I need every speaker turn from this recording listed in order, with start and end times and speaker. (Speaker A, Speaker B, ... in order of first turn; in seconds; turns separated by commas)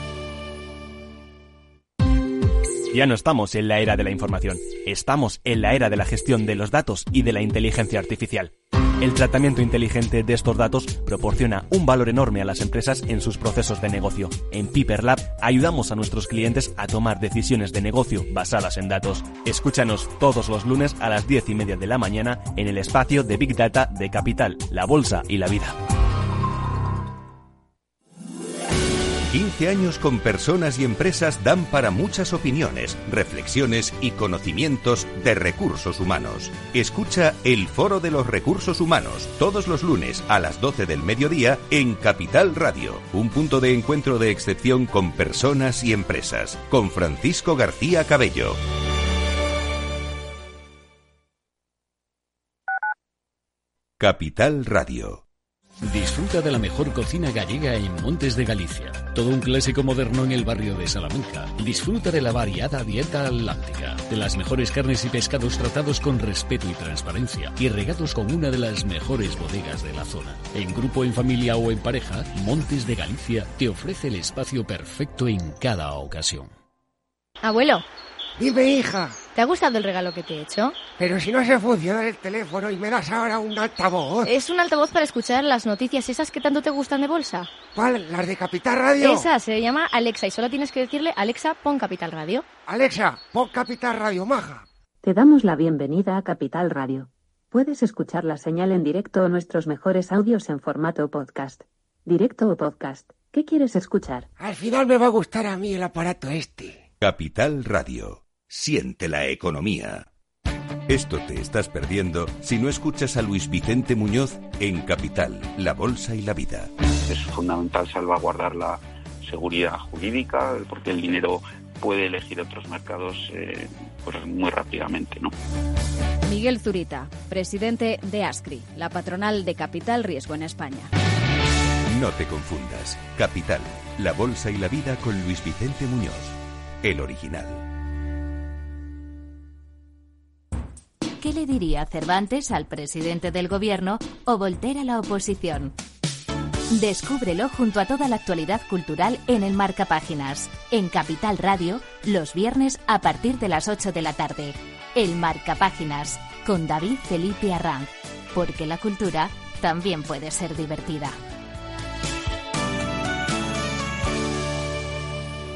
Speaker A: 2.9-25.8, Speaker B: 29.3-48.6, Speaker B: 54.0-55.2, Speaker C: 55.8-76.5, Speaker D: 77.4-77.8, Speaker E: 78.4-79.2, Speaker D: 79.3-80.8, Speaker E: 81.0-84.3, Speaker D: 84.2-87.5, Speaker E: 87.7-89.3, Speaker D: 89.0-92.4, Speaker E: 92.7-94.7, Speaker F: 95.0-104.3, Speaker E: 104.4-106.8, Speaker B: 107.0-110.1, Speaker B: 110.9-116.7, Speaker G: 117.1-125.3, Speaker H: 126.2-130.9, Speaker B: 131.9-137.6, Speaker I: 141.2-145.7, Speaker I: 146.7-161.2